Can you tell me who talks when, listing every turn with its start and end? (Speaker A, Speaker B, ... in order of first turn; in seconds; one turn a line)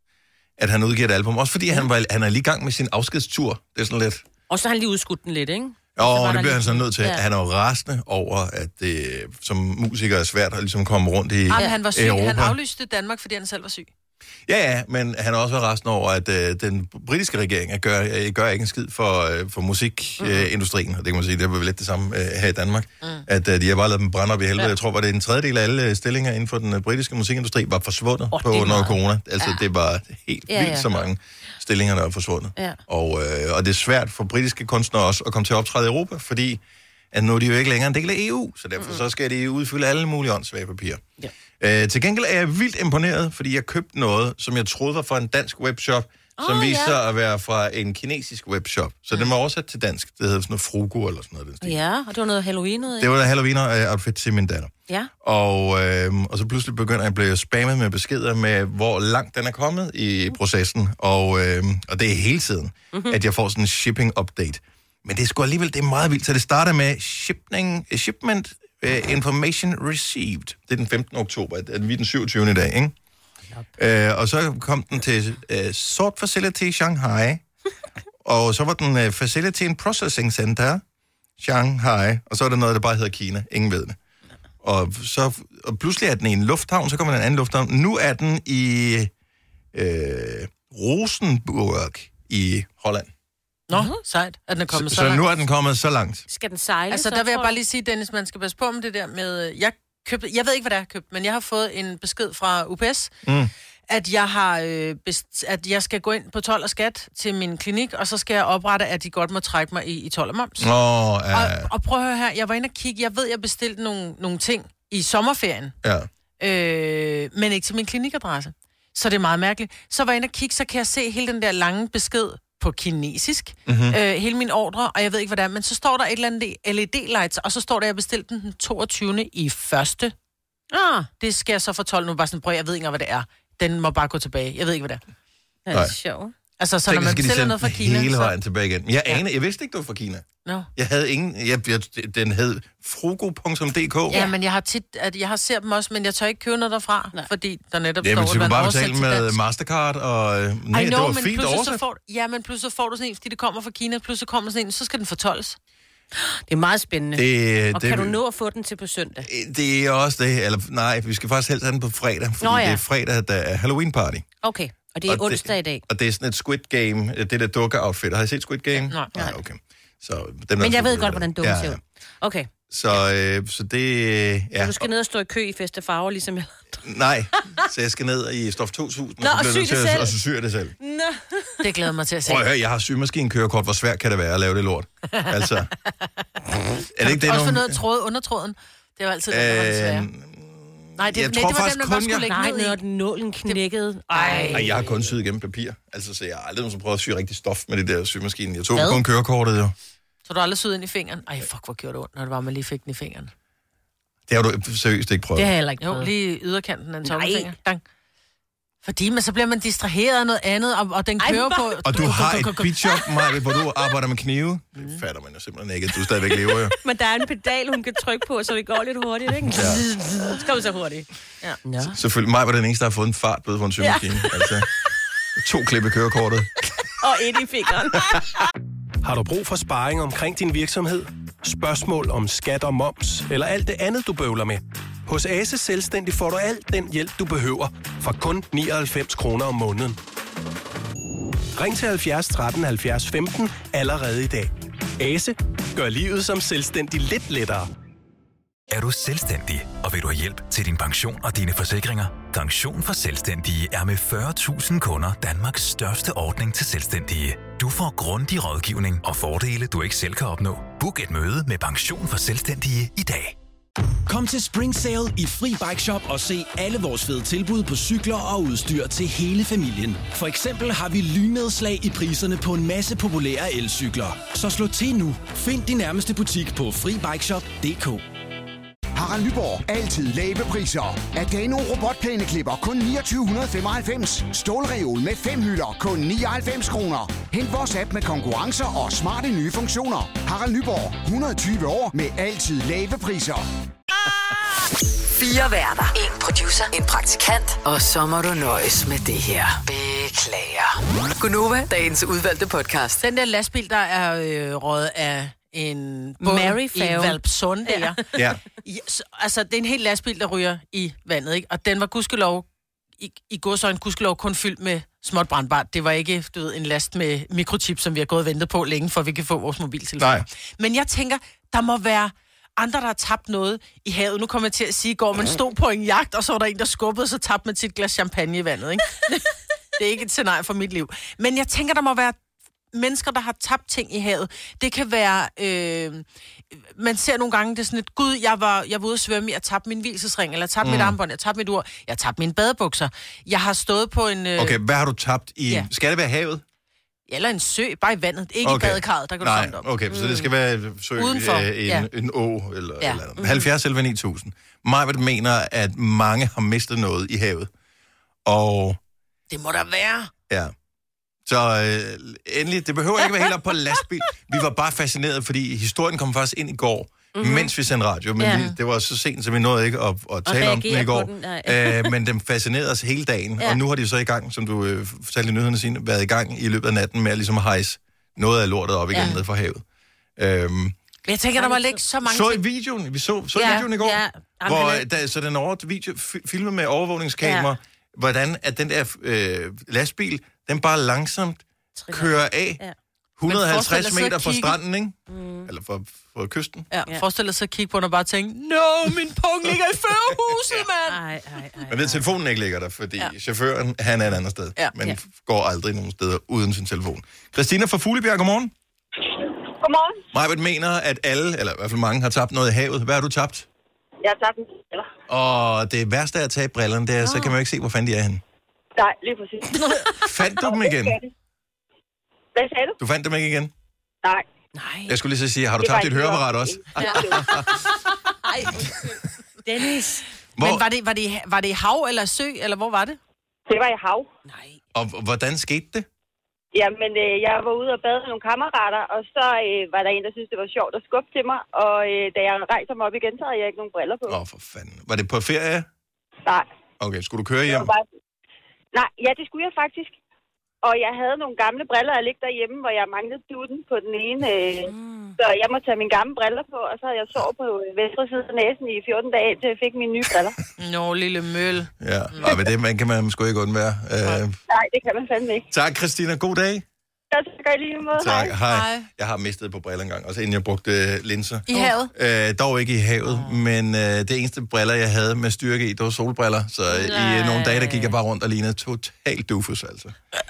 Speaker A: 0.6-4.2
Speaker B: 4.5-7.2
Speaker A: 6.0-12.6
Speaker C: 11.5-13.9
Speaker B: 11.5-11.8
Speaker A: 14.5-36.6
Speaker B: 20.2-20.5
Speaker B: 28.3-29.6
Speaker B: 30.5-31.0
Speaker A: 37.1-41.0
Speaker B: 38.8-39.0
Speaker A: 41.6-51.8
Speaker B: 46.4-47.0
Speaker B: 51.6-53.1
Speaker A: 53.0-54.7
Speaker A: 55.2-73.0
Speaker B: 62.9-63.2
Speaker A: 73.8-77.4
Speaker A: 78.2-80.8
Speaker A: 81.4-84.0
Speaker A: 84.6-89.1
Speaker A: 89.7-93.1
Speaker C: 93.7-95.2
Speaker A: 94.7-96.2
Speaker B: 96.3-97.5
Speaker C: 96.9-103.1
Speaker A: 103.2-103.5
Speaker C: 103.9-110.7
Speaker A: 110.6-111.7
Speaker C: 111.3-115.8
Speaker A: 115.8-116.1
Speaker C: 116.4-130.1
Speaker A: 123.7-124.0
Speaker B: 130.7-131.1
Speaker C: 131.2-135.0
Speaker B: 135.7-136.3
Speaker A: 135.7-136.0
Speaker C: 136.6-138.3
Speaker A: 136.9-144.2
Speaker B: 144.1-144.3
Speaker C: 144.1-149.4
Speaker A: 148.0-151.8
Speaker C: 150.7-155.6
Speaker B: 156.2-159.3
Speaker A: 157.1-158.2
Speaker A: 159.3-164.3
Speaker B: 162.4-162.8
Speaker B: 164.4-165.8
Speaker A: 165.1-171.8
Speaker B: 170.6-172.5
Speaker A: 172.7-174.9
Speaker B: 174.6-176.8
Speaker A: 176.8-180.8
Speaker B: 179.2-180.1
Speaker B: 180.8-181.7
Speaker C: 181.6-182.4
Speaker A: 182.2-185.7
Speaker A: 187.0-187.8
Speaker C: 187.0-190.1
Speaker A: 189.3-192.3
Speaker C: 191.0-192.8
Speaker B: 192.3-194.8
Speaker C: 193.5-194.9
Speaker A: 194.5-199.7
Speaker B: 198.7-199.0
Speaker C: 200.2-203.3
Speaker A: 204.3-205.5
Speaker B: 205.4-206.1
Speaker C: 205.8-207.8
Speaker B: 207.0-207.5
Speaker C: 208.8-212.8
Speaker B: 211.2-212.1
Speaker A: 211.8-216.7
Speaker B: 216.5-221.1
Speaker A: 219.5-219.8
Speaker C: 220.0-220.3
Speaker B: 221.6-222.0
Speaker A: 221.9-224.7
Speaker B: 223.8-224.6
Speaker A: 225.4-226.5
Speaker B: 227.0-228.3
Speaker D: 229.0-240.0
Speaker D: 241.6-247.7
Speaker E: 248.7-263.4
Speaker F: 264.1-278.0
Speaker G: 278.9-293.4
Speaker H: 295.1-303.0
Speaker C: 303.0-312.5
Speaker B: 306.2-308.0
Speaker C: 313.0-332.2
Speaker A: 320.0-320.2
Speaker C: 332.7-344.6
Speaker A: 340.6-341.0
Speaker A: 344.4-346.4
Speaker C: 347.1-349.7
Speaker A: 348.4-357.5
Speaker B: 349.9-350.3
Speaker C: 351.0-351.9
Speaker B: 353.2-353.5
Speaker A: 358.2-358.8
Speaker C: 359.3-360.1
Speaker A: 361.2-379.6
Speaker B: 367.1-367.5
Speaker B: 368.2-368.5
Speaker B: 370.2-371.9
Speaker B: 378.9-379.2
Speaker A: 380.2-380.8
Speaker C: 381.1-382.4
Speaker B: 381.4-381.8
Speaker A: 382.0-392.6
Speaker B: 383.3-384.9
Speaker B: 387.2-387.5
Speaker B: 391.8-392.8
Speaker A: 393.2-396.7
Speaker C: 393.3-394.6
Speaker B: 395.1-395.5
Speaker C: 396.7-401.0
Speaker B: 400.9-402.0
Speaker A: 401.7-408.5
Speaker I: 409.6-410.0
Speaker A: 410.1-413.5
Speaker I: 414.0-414.9
Speaker A: 415.1-418.2
Speaker B: 417.0-417.3
Speaker I: 418.8-419.7
Speaker A: 420.0-421.0
Speaker I: 420.4-421.0
Speaker I: 422.4-422.8
Speaker A: 422.8-423.5
Speaker B: 424.5-425.0
Speaker A: 424.9-427.6
Speaker I: 425.6-427.4
Speaker B: 426.8-427.2
Speaker B: 427.9-430.1
Speaker A: 430.4-430.6
Speaker C: 430.4-433.0
Speaker I: 433.5-434.1
Speaker B: 434.3-434.6
Speaker A: 434.8-435.9
Speaker I: 436.5-444.2
Speaker A: 444.1-445.7
Speaker A: 446.8-447.7
Speaker I: 447.5-447.9
Speaker I: 448.7-450.0
Speaker I: 450.6-460.4
Speaker B: 454.7-455.1
Speaker C: 460.6-462.4
Speaker A: 461.8-464.4
Speaker I: 464.5-465.5
Speaker A: 465.5-466.6
Speaker I: 467.1-468.4
Speaker A: 467.9-479.9
Speaker C: 468.5-468.9
Speaker C: 471.5-471.9
Speaker B: 473.1-473.4
Speaker B: 476.7-477.9